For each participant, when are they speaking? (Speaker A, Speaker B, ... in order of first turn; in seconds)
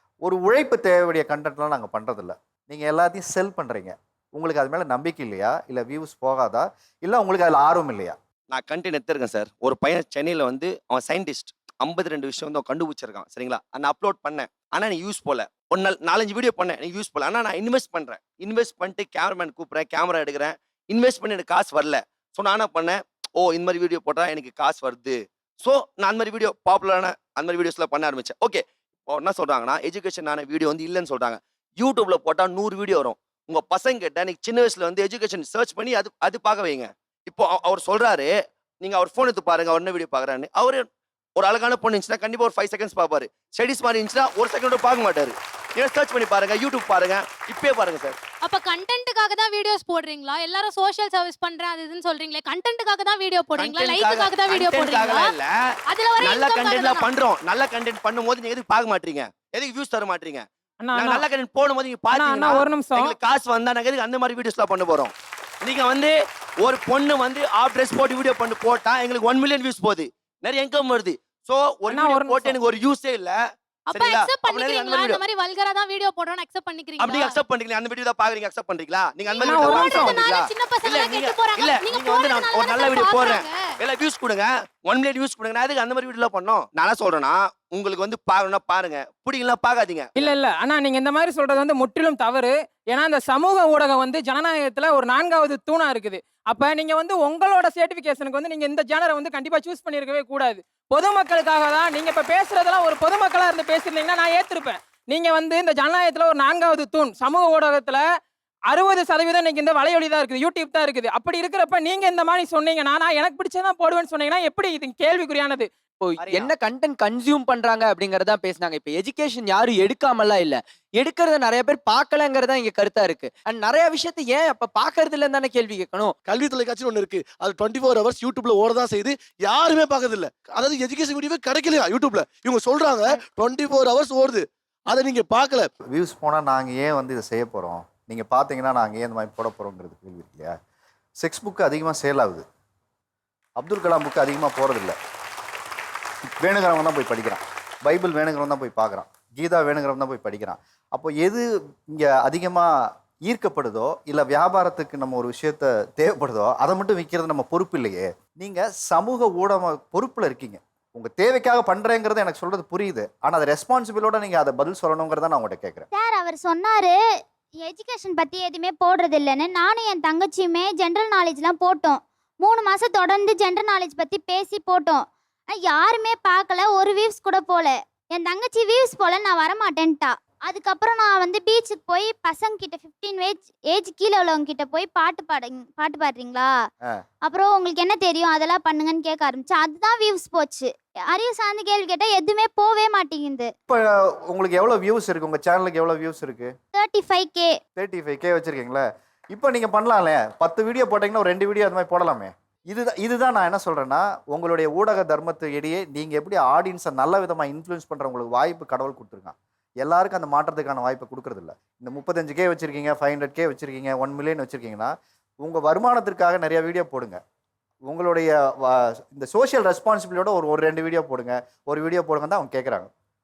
Speaker A: 0.2-8.2, 135.9-140.6, 141.2-142.4, 143.6-145.0, 146.4-165.9, 193.7-196.5, 197.8-217.2, 217.9-222.9
Speaker B: 8.5-40.9, 41.4-48.2, 53.6-55.6, 56.2-73.3, 73.9-75.2, 77.0-90.3
Speaker C: 48.4-55.4, 55.9-57.1, 73.9-77.4, 79.3-83.7
Speaker D: 60.8-61.2, 62.1-63.1, 71.9-72.6, 79.4-80.2, 90.2-108.0, 108.7-115.7
Speaker E: 116.0-126.2
Speaker F: 126.3-135.7
Speaker G: 165.9-166.9, 167.6-175.0, 175.6-186.5, 187.2-193.5, 196.7-197.5